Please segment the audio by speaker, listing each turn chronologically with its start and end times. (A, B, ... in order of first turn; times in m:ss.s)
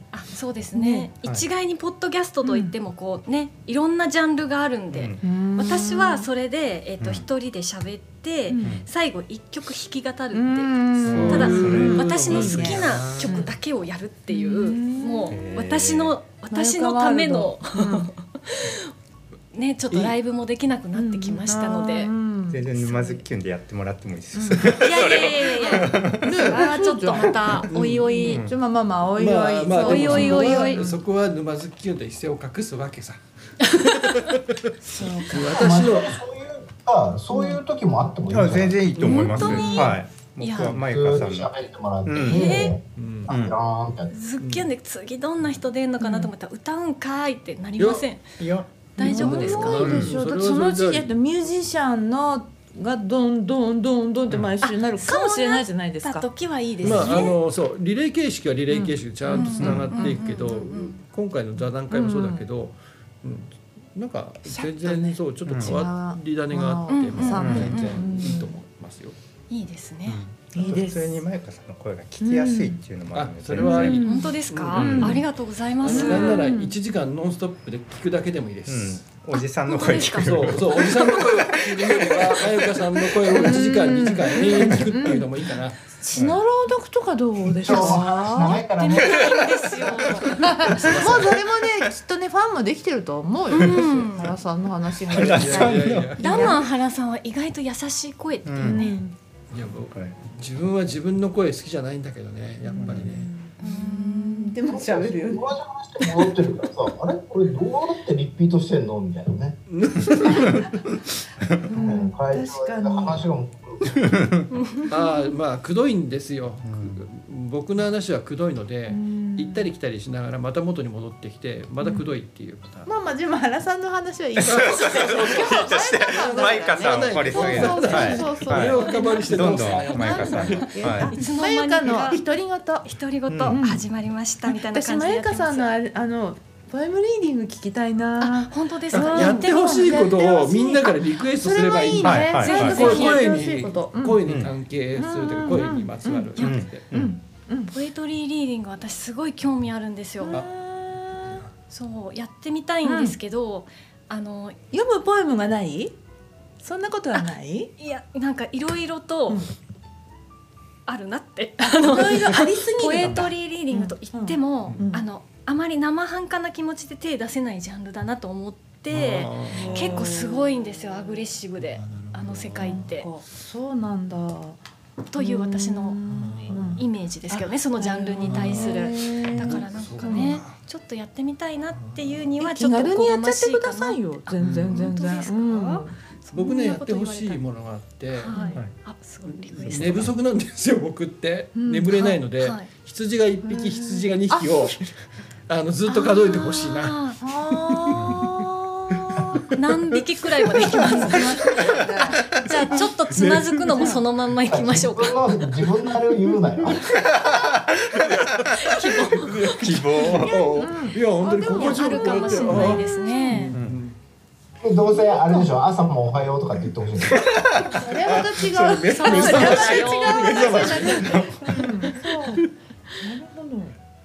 0:00.1-0:18.9 A
0:00.7-0:01.1 B
0:02.4-0:02.7 B
0:04.9-0:05.2 C
0:05.2-0:06.3 B
0:08.5-0:08.8 B
0:08.6-0:08.9 C
0:10.3-0:12.8 B
0:11.0-0:13.4 C
0:11.1-0:13.5 D
0:14.3-0:15.4 B
0:15.3-0:16.2 C
0:16.5-0:18.1 B
0:19.5-0:22.1 A
0:19.9-0:20.2 D
0:20.9-0:22.7 B
0:22.5-0:26.5 C
0:22.8-0:23.2 A
0:24.3-0:24.9 B
0:24.8-0:28.4 A
0:25.7-0:27.7 B
0:27.6-0:28.3 D
0:28.2-0:31.0 B
0:28.2-0:28.6 C
0:29.2-0:34.4 D
0:29.8-0:30.9 A
0:34.8-0:36.0 B
0:35.3-0:36.2 D
0:35.5-0:38.9 E
0:37.3-0:37.6 B
0:38.3-0:41.5 C
0:39.0-0:39.9 D
0:39.0-0:40.8 A
0:40.6-0:44.1 E
0:42.0-0:42.5 C
0:42.2-0:42.8 A
0:43.0-0:43.3 D
0:43.3-0:43.5 C
0:44.1-0:48.2 A
0:44.4-0:44.7 D
0:46.0-0:46.3 B
0:47.8-0:48.0 D
0:48.4-0:48.9 C
0:48.9-0:49.9 A
0:49.0-0:56.3 B
0:49.0-0:51.1 D
0:49.8-0:50.2 C
0:54.6-0:57.4 A
0:56.8-1:09.2 D
0:56.9-0:57.3 B
0:59.3-1:00.2 B
0:59.3-1:01.0 A
0:59.6-0:59.9 C
1:01.9-1:02.4 B
1:04.4-1:08.5 B
1:05.5-1:05.8 C
1:06.9-1:08.0 A
1:07.4-1:07.9 C
1:09.5-1:10.2 A
1:10.1-1:14.0 C
1:10.5-1:11.2 B
1:12.2-1:12.8 B
1:13.1-1:15.2 D
1:13.6-1:15.2 B
1:13.7-1:16.5 A
1:14.7-1:15.2 C
1:15.8-1:19.0 D
1:15.9-1:16.8 B
1:18.7-1:22.3 C
1:19.3-1:21.9 A
1:20.1-1:25.8 D
1:23.3-1:25.3 B
1:26.0-1:28.7 B
1:26.1-1:26.4 C
1:27.5-1:29.2 E
1:28.4-1:31.0 A
1:29.0-1:31.4 C
1:30.4-1:36.6 B
1:30.8-1:31.3 D
1:33.5-1:34.3 A
1:33.6-1:34.0 C
1:35.1-1:36.6 C
1:35.1-1:36.5 D
1:36.2-1:39.0 A
1:38.4-1:38.9 C
1:38.6-1:39.1 B
1:39.5-1:43.3 D
1:39.6-1:40.2 C
1:42.7-1:43.2 C
1:42.8-1:45.6 B
1:43.6-1:44.6 A
1:44.6-1:49.6 E
1:49.7-1:50.8 D
1:51.7-1:53.2 B
1:51.8-1:54.0 E
1:54.1-1:54.4 C
1:54.5-1:54.9 A
1:54.9-2:02.9 D
1:56.6-1:57.0 C
1:58.9-1:59.7 B
2:01.8-2:02.0 B
2:02.8-2:12.9 B
2:04.4-2:11.1 C
2:04.4-2:11.2 D
2:08.8-2:12.2 A
2:12.8-2:15.7 A
2:13.3-2:13.6 C
2:13.5-2:13.8 B
2:14.4-2:24.2 B
2:18.2-2:19.8 A
2:18.9-2:26.9 D
2:22.0-2:22.8 C
2:22.4-2:23.4 A
2:24.2-2:24.5 C
2:24.9-2:27.7 B
2:26.4-2:26.6 A
2:26.4-2:27.2 C
2:27.7-2:30.4 A
2:30.2-2:31.4 B
2:31.7-2:34.6 A
2:32.8-2:33.2 B
2:34.7-2:35.9 B
2:36.6-2:37.7 B
2:37.1-2:39.4 A
2:40.9-2:53.2 A
2:41.6-2:45.0 B
2:48.9-2:50.0 D
2:49.5-2:51.2 B
2:51.6-2:52.9 D
2:52.5-2:54.6 B
2:55.1-2:56.0 A
2:55.2-3:00.4 B
2:56.1-2:56.8 D
2:56.7-3:07.4 A
2:58.2-3:00.6 D
3:01.8-3:02.3 D
3:02.4-3:06.0 B
3:04.4-3:04.9 D
3:06.3-3:08.3 D
3:08.1-3:10.0 A
3:08.3-3:08.6 B
3:09.2-3:14.9 D
3:09.6-3:10.1 C
3:11.5-3:12.2 B
3:12.4-3:12.7 A
3:13.4-3:14.8 B
3:15.5-3:18.4 D
3:15.9-3:17.2 A
3:17.2-3:19.2 B
3:17.9-3:18.3 C
3:19.5-3:25.2 A
3:20.5-3:21.6 D
3:21.0-3:22.9 B
3:22.4-3:24.0 D
3:23.7-3:24.0 B
3:24.4-3:27.0 E
3:26.0-3:26.7 D
3:26.8-3:30.6 C
3:28.0-3:28.3 D
3:28.5-3:29.4 A
3:28.9-3:34.0 D
3:30.1-3:33.5 B
3:31.3-3:33.5 A
3:33.5-3:33.8 C
3:34.6-3:37.2 E
3:35.0-3:35.6 B
3:37.1-3:37.9 C
3:37.6-3:42.4 B
3:37.9-3:41.2 D
3:38.9-3:41.2 A
3:39.3-3:39.7 C
3:40.2-3:41.7 C
3:43.0-3:43.8 B